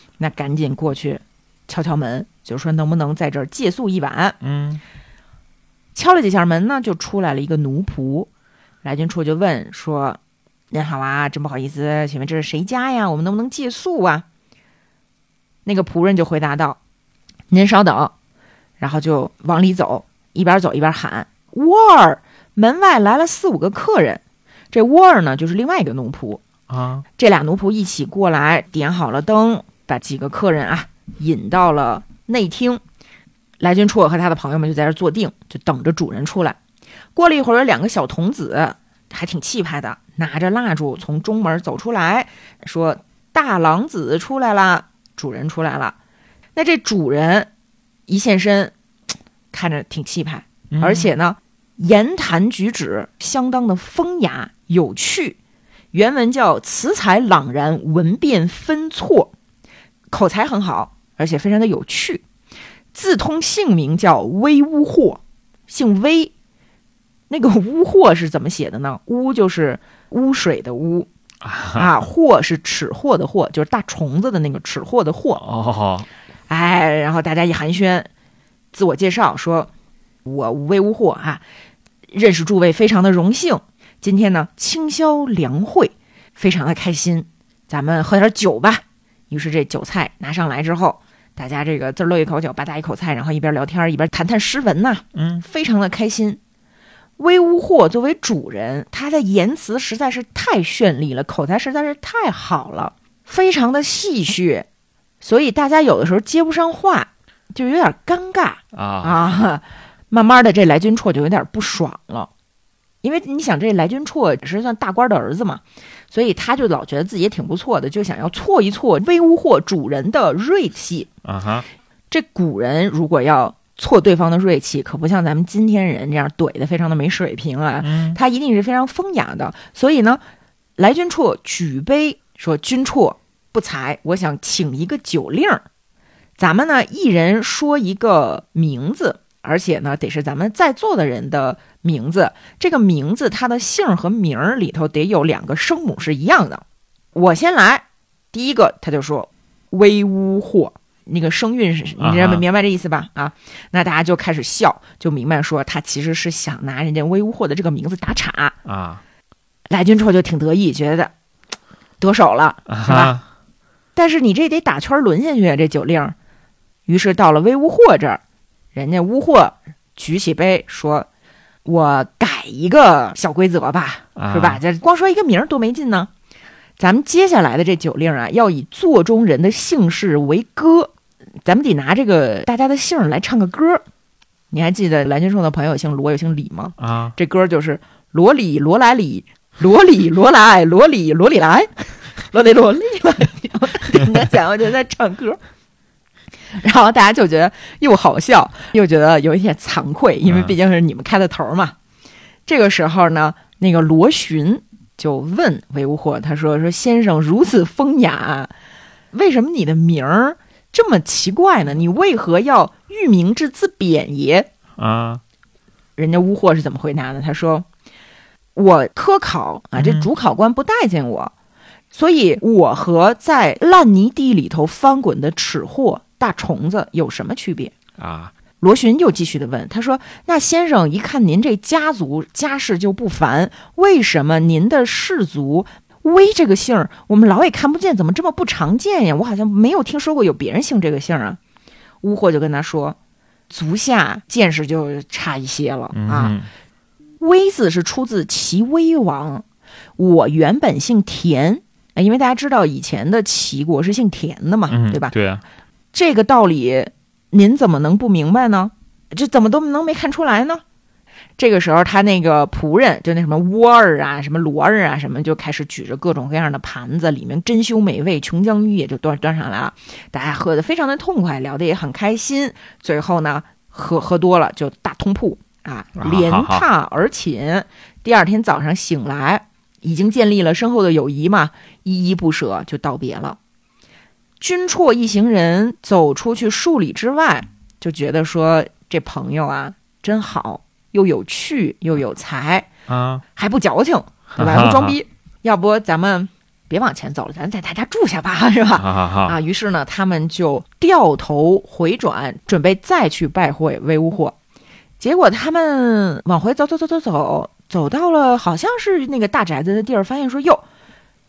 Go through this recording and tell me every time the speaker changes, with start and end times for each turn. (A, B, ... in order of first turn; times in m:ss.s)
0:00.2-0:04.4 A
0:04.4-0:04.8 B
0:06.0-0:08.3 A
0:08.8-0:10.2 A
0:10.7-0:14.2 A
0:15.6-0:16.8 A
0:17.5-0:18.1 A
0:18.8-0:26.4 A
0:26.7-0:27.0 B
0:27.2-0:32.8 A
0:33.6-0:36.6 A
0:37.2-0:46.0 A
0:46.6-0:47.5 A
0:48.1-0:48.7 A
0:49.5-0:55.4 A
0:50.7-0:51.1 B
0:55.9-0:59.3 A
1:00.1-1:02.2 A
1:02.9-1:06.3 A
1:07.3-1:11.1 A
1:11.4-1:11.9 B
1:11.7-1:15.4 A
1:15.4-1:16.1 B
1:16.5-1:18.1 A
1:18.7-1:19.7 A
1:20.2-1:21.4 A
1:22.1-1:36.4 A
1:35.2-1:35.4 B
1:37.2-1:44.7 A
1:45.2-1:52.3 A
1:48.7-1:49.3 B
1:53.0-2:01.1 A
2:01.2-2:01.6 B
2:02.1-2:10.2 A
2:07.8-2:08.2 B
2:10.8-2:15.6 A
2:16.4-2:26.6 A
2:27.2-2:38.6 A
2:32.0-2:32.4 B
2:38.6-2:39.0 B
2:39.7-2:41.1 A
2:42.0-2:43.2 A
2:42.7-2:43.2 B
2:44.0-2:46.2 A
2:46.9-2:48.2 A
2:48.7-2:51.1 A
2:51.6-2:56.1 A
2:54.2-2:54.6 B
2:56.8-3:00.9 A
3:01.4-3:03.8 A
3:04.5-3:15.4 A
3:06.8-3:07.2 B
3:16.6-3:21.8 A
3:20.3-3:20.5 B
3:22.5-3:28.5 A
3:29.1-3:34.5 A
3:34.8-3:35.2 B
3:36.0-3:37.7 A
3:38.6-3:41.3 A
3:39.8-3:40.1 B
3:41.9-3:47.7 A
3:48.0-3:48.3 B
3:48.6-4:01.4 A
4:02.0-4:03.0 A
4:03.5-4:06.4 A
4:05.9-4:06.5 B
4:07.2-4:09.4 A
4:10.0-4:15.1 A
4:14.7-4:15.4 B
4:15.9-4:20.6 A
4:21.4-4:43.4 A
4:36.0-4:36.7 B
4:44.4-4:52.7 A
4:52.9-4:53.2 B
4:53.3-5:04.4 A
4:54.4-4:55.0 B
4:58.8-4:59.4 B
5:05.0-5:10.6 A